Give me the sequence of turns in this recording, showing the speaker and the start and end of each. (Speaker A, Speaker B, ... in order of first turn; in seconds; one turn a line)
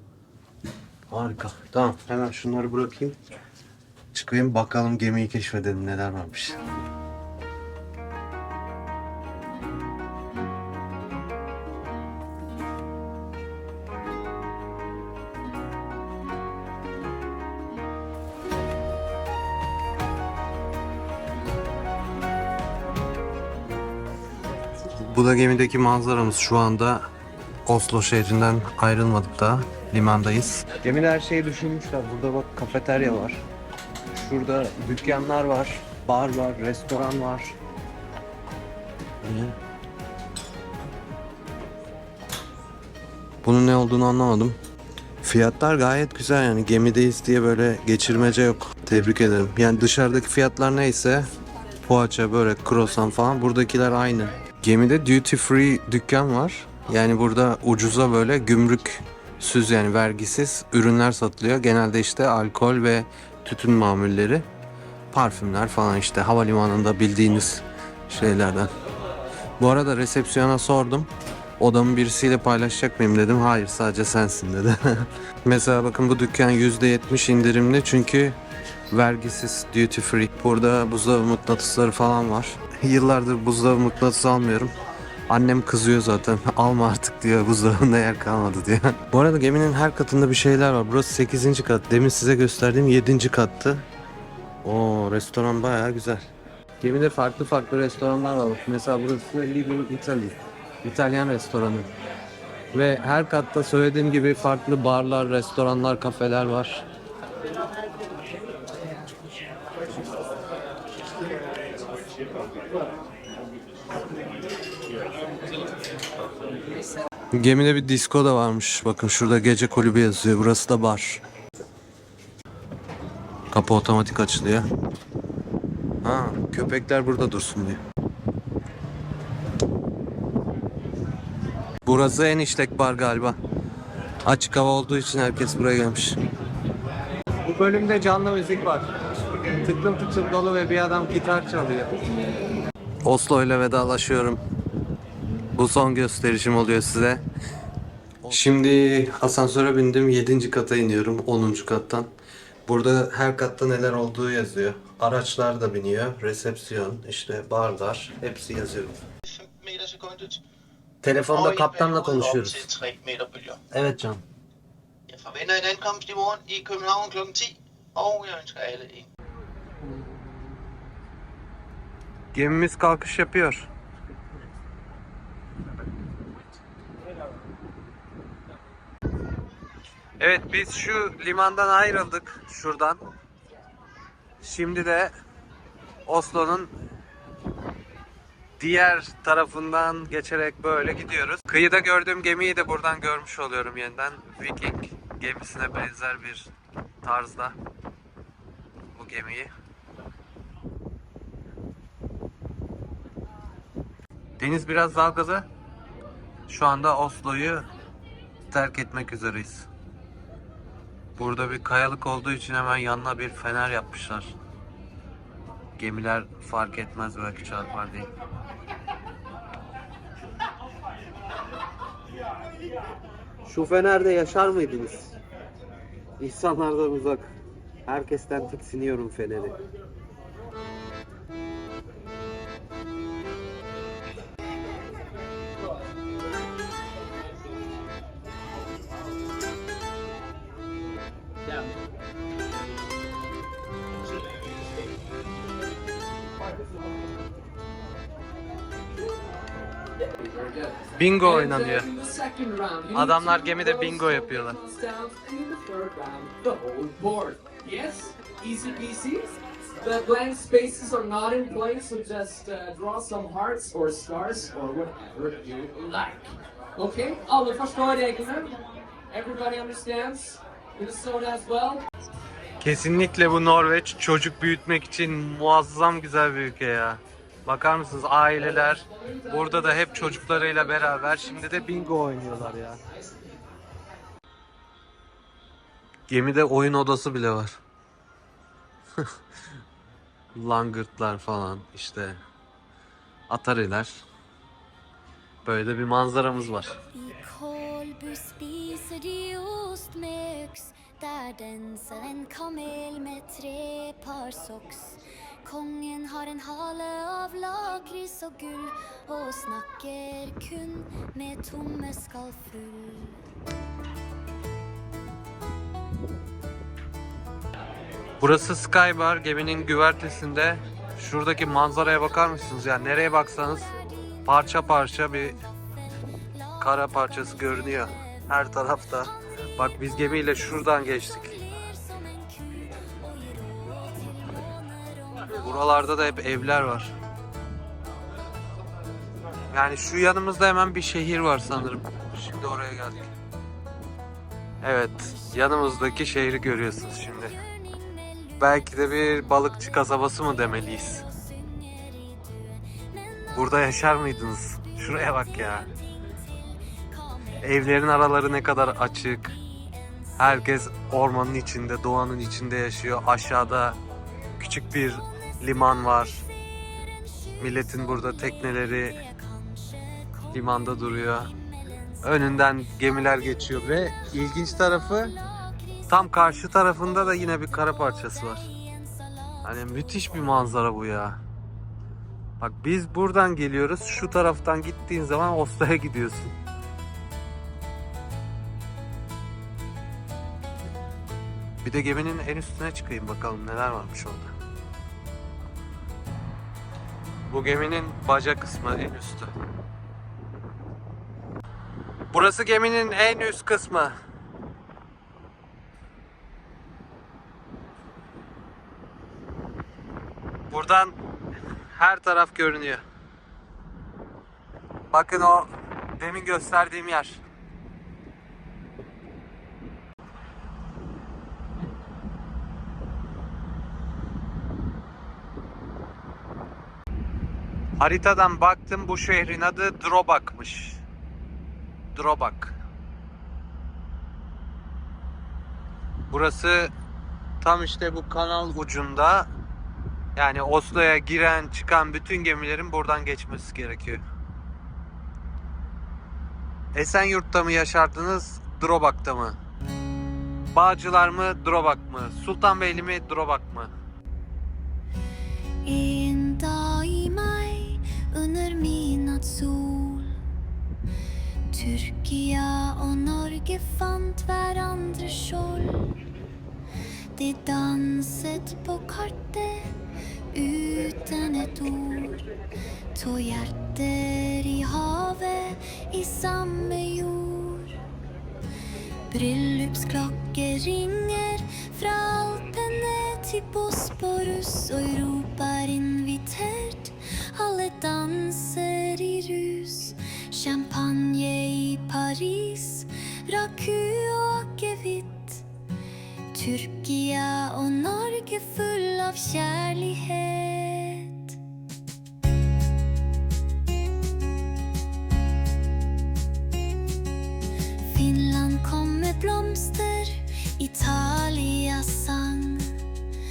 Speaker A: 1.1-3.1
Speaker A: 4.1-6.6
Speaker A: 24.9-27.1
Speaker A: 27.6-33.4
Speaker A: 34.1-37.6
Speaker A: 39.2-39.5
Speaker A: 43.4-44.6
Speaker A: 45.2-51.3
Speaker A: 51.8-64.5
Speaker A: 65.1-68.7
Speaker A: 69.6-78.4
Speaker A: 78.9-84.7
Speaker A: 85.3-93.8
Speaker A: 94.6-96.3
Speaker A: 96.8-101.9
Speaker A: 102.7-106.8
Speaker A: 117.3-121.2
Speaker A: 123.5-124.7
Speaker A: 126.0-127.8
Speaker A: 131.8-133.4
Speaker A: 134.2-136.2
Speaker A: 137.4-142.0
Speaker A: 143.0-144.4
Speaker A: 145.5-147.2
Speaker A: 148.2-152.1
Speaker A: 152.7-159.0
Speaker B: 159.3-160.4
Speaker A: 161.0-162.7
Speaker B: 161.3-163.6
Speaker A: 163.7-164.2
Speaker B: 165.1-169.1
Speaker A: 172.3-173.7
Speaker A: 180.2-183.0
Speaker A: 184.4-185.1
Speaker A: 186.1-186.7
Speaker A: 188.6-196.5
Speaker A: 197.0-197.6
Speaker A: 198.9-199.5
Speaker A: 204.4-205.5
Speaker A: 206.5-207.7
Speaker A: 208.5-209.7
Speaker A: 211.2-214.3
Speaker A: 215.8-218.1
Speaker A: 223.4-225.1
Speaker A: 226.2-227.3
Speaker A: 227.8-229.6
Speaker C: 250.3-250.8
Speaker A: 250.9-251.9
Speaker C: 251.3-271.9
Speaker A: 252.9-254.6
Speaker A: 272.6-282.8
Speaker A: 286.1-287.6
Speaker A: 290.3-292.2
Speaker A: 293.3-294.0
Speaker A: 295.4-296.7
Speaker D: 296.9-313.2
Speaker A: 318.2-323.7
Speaker D: 323.7-324.6
Speaker A: 324.2-325.4
Speaker D: 326.3-328.4
Speaker A: 326.6-331.3
Speaker D: 331.0-335.9
Speaker A: 335.3-336.9
Speaker A: 339.5-343.1
Speaker A: 344.6-347.3
Speaker D: 347.1-350.1
Speaker A: 348.4-351.0
Speaker D: 350.7-354.0
Speaker A: 353.3-355.7
Speaker D: 354.6-357.6
Speaker A: 357.4-359.3
Speaker D: 359.0-360.4
Speaker A: 360.2-363.8
Speaker A: 364.4-366.2
Speaker D: 366.1-380.4
Speaker A: 367.4-369.0
Speaker A: 370.3-371.3
Speaker A: 372.0-375.1
Speaker A: 375.9-378.4
Speaker A: 379.4-381.2
Speaker A: 382.4-386.3
Speaker A: 391.6-394.3
Speaker A: 397.3-399.3
Speaker A: 402.1-403.9
Speaker A: 410.5-410.9
Speaker A: 411.7-412.8
Speaker A: 414.9-417.2
Speaker A: 427.8-430.8
Speaker A: 431.9-432.6
Speaker A: 436.1-436.7
Speaker A: 437.4-439.3
Speaker A: 440.1-444.0
Speaker A: 446.7-449.4
Speaker A: 450.5-453.7
Speaker D: 455.6-460.1
Speaker D: 461.5-466.0
Speaker D: 467.1-469.7
Speaker D: 470.3-472.2
Speaker D: 472.9-477.8
Speaker D: 479.1-495.4
Speaker D: 496.3-501.4
Speaker D: 507.8-512.8